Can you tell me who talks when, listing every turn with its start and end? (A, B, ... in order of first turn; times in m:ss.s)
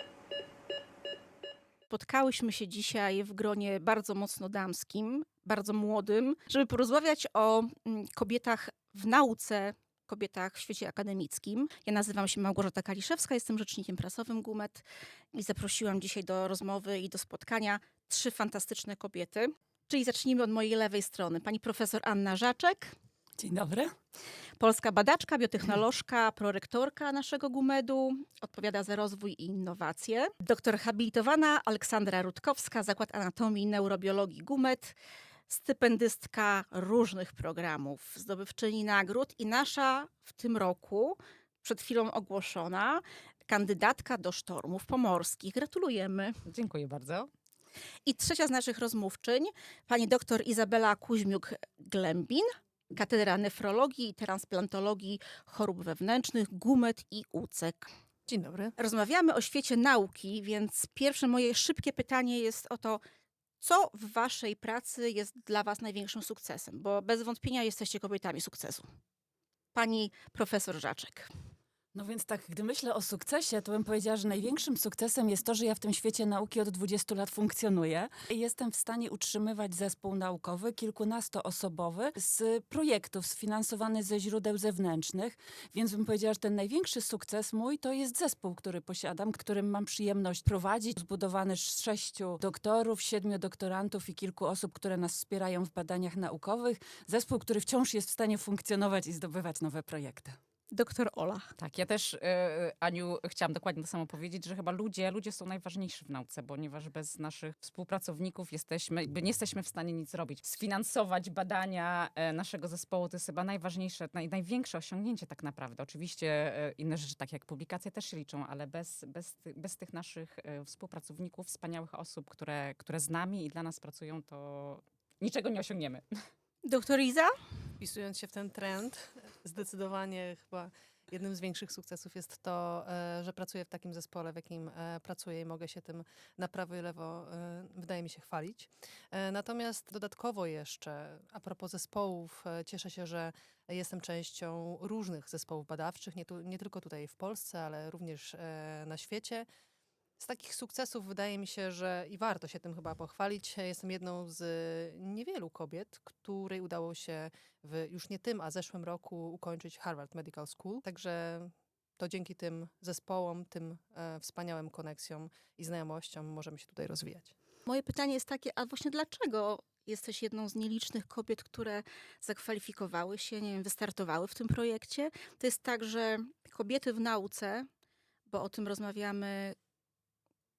0:01.9-0:22.9 A
0:23.4-0:23.9 B
0:24.6-0:35.0 A
0:35.5-0:46.4 A
0:46.4-0:47.3 C
0:48.0-0:57.9 A
0:58.3-0:58.7 D
0:58.8-1:03.0 A
1:03.6-1:08.8 A
1:09.7-1:11.3 A
1:11.9-1:40.4 B
1:40.7-1:41.5 A
1:41.6-2:06.0 C
2:06.6-2:07.3 A
2:07.8-2:29.5 D
2:30.2-2:47.3 D
2:47.7-2:57.7 A
2:58.3-2:59.6 A